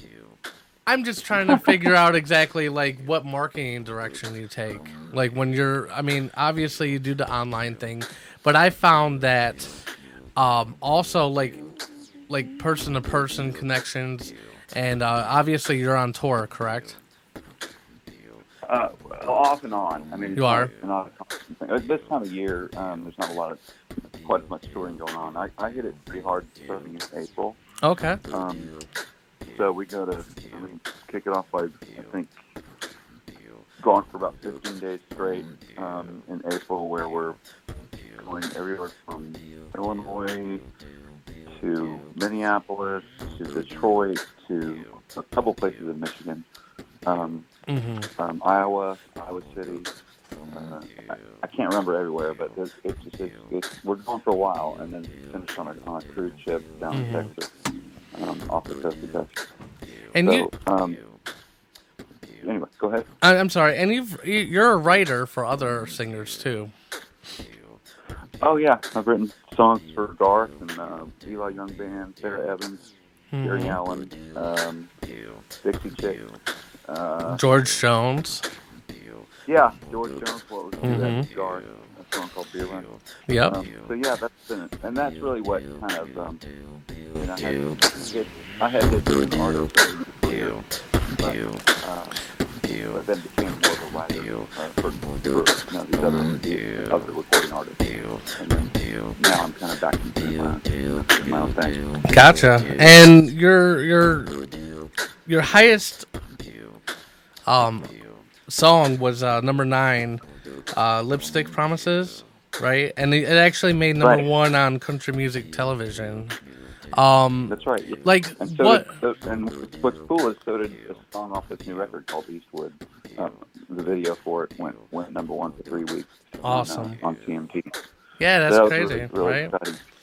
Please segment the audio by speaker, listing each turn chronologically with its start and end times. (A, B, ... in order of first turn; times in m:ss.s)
0:00.9-0:09.7 A
0:01.4-0:01.8 B
0:10.4-0:11.7 A
0:12.3-0:17.0 A
0:18.7-0:23.6 B
0:20.4-0:20.7 A
0:24.2-0:27.6 B
0:27.8-0:28.2 A
0:28.3-0:28.7 B
0:29.5-0:32.3 B
0:33.8-0:37.4 B
0:38.2-0:40.6 B
0:41.5-0:46.4 B
0:47.1-0:47.5 B
0:47.7-0:48.1 A
0:48.2-0:49.9 B
0:50.5-0:57.5 B
0:56.9-0:57.3 A
0:58.1-0:59.3 B
1:00.2-1:00.5 A
1:00.2-1:01.0 B
1:02.4-1:03.1 B
1:03.2-1:06.7 A
1:08.4-1:12.9 B
1:13.3-1:13.8 A
1:13.4-1:14.9 B
1:15.6-1:16.3 B
1:16.9-1:17.4 B
1:17.2-1:18.4 A
1:19.5-1:22.9 B
1:20.8-1:21.3 A
1:23.3-1:23.6 A
1:23.5-1:26.4 B
1:27.2-1:32.2 B
1:32.9-1:41.9 B
1:42.1-1:44.4 A
1:45.3-1:46.1 A
1:47.5-1:47.9 A
1:48.5-1:56.4 A
1:54.0-1:54.3 B
1:56.9-1:58.9 A
1:57.5-2:07.7 B
2:06.4-2:07.0 A
2:08.2-2:09.5 A
2:08.5-2:09.8 B